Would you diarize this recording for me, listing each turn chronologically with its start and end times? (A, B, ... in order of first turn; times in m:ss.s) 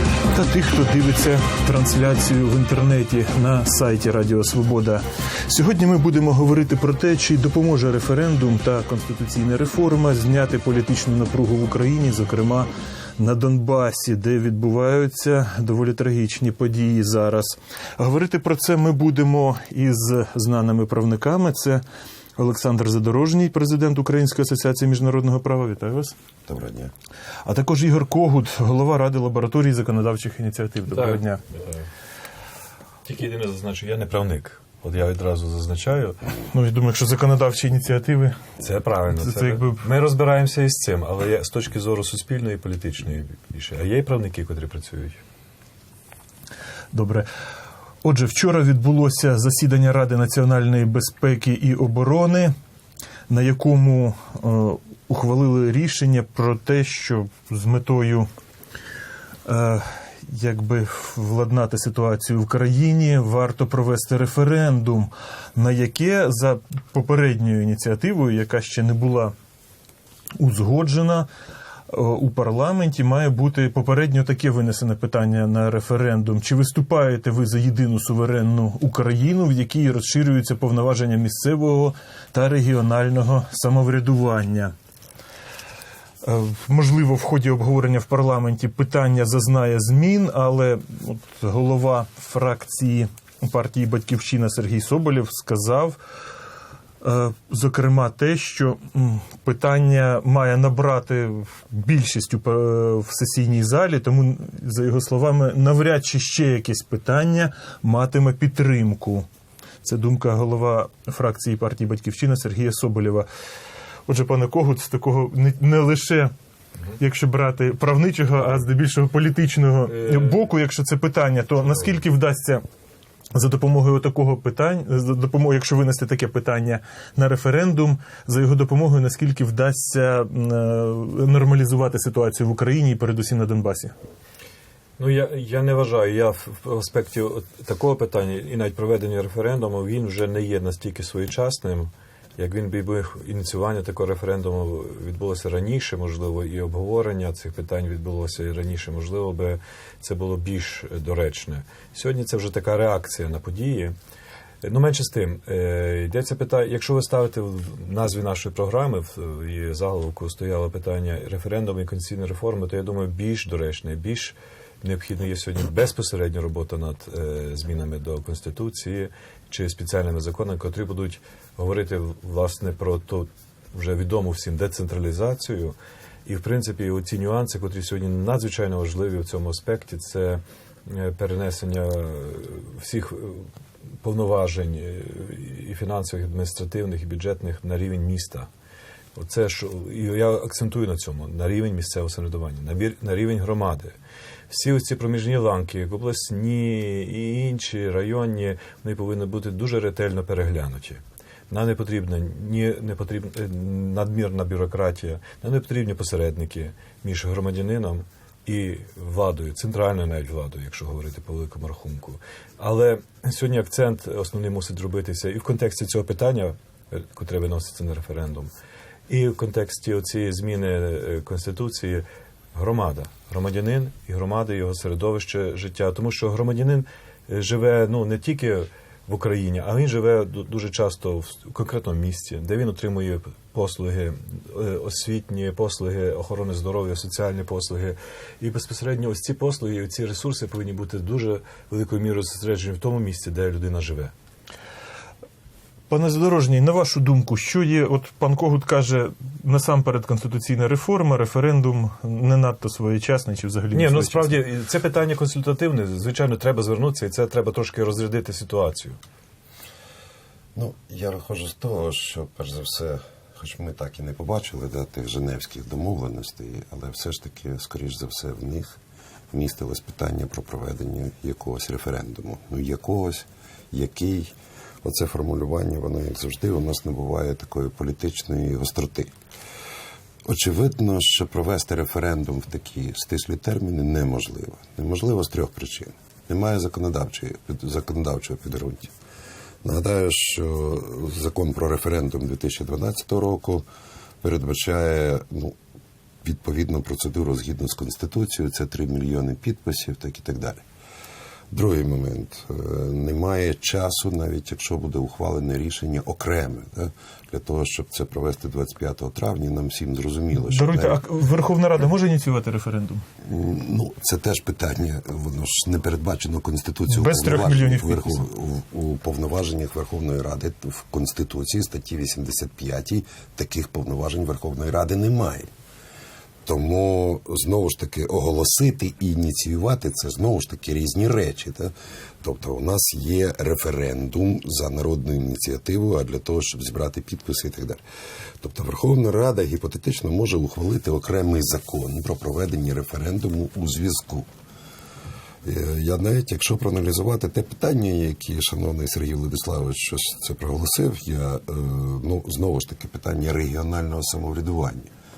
0:00.3-0:21.8 A
0:22.4-0:26.2 A
0:26.5-0:26.9 B
0:27.4-0:31.4 A
0:30.9-0:31.9 C
0:33.0-0:36.2 C
0:36.5-0:38.4 A
0:38.6-0:45.2 C
0:39.1-0:39.8 A
0:46.9-0:47.3 A
0:48.0-0:52.5 A
0:53.3-0:58.3 A
0:59.5-1:09.4 A
1:10.4-1:11.3 A
1:11.9-1:24.8 A
1:26.2-1:36.0 A
1:37.0-1:49.3 A
1:49.8-1:53.3 A
1:54.1-1:56.3 A
1:57.0-2:02.6 A
1:59.9-2:00.4 C
2:03.3-2:14.0 A
2:15.0-2:34.0 C
2:34.6-2:55.8 C
2:56.3-3:03.5 C
3:04.0-3:08.5 C
3:09.2-3:14.0 C
3:14.5-3:38.5 C
3:39.1-4:04.1 C
4:05.9-4:14.4 A
4:13.7-4:19.0 C
4:20.6-4:28.8 B
4:29.3-4:39.1 B
4:40.2-4:48.9 B
4:49.6-4:53.6 B
4:54.2-4:55.6 B
4:56.2-5:00.6 B
5:01.5-5:11.0 B
5:10.3-5:13.0 A
5:13.2-5:25.5 B
5:16.9-5:18.2 A
5:26.4-5:37.8 B
5:38.4-5:44.3 B
5:45.4-5:54.9 B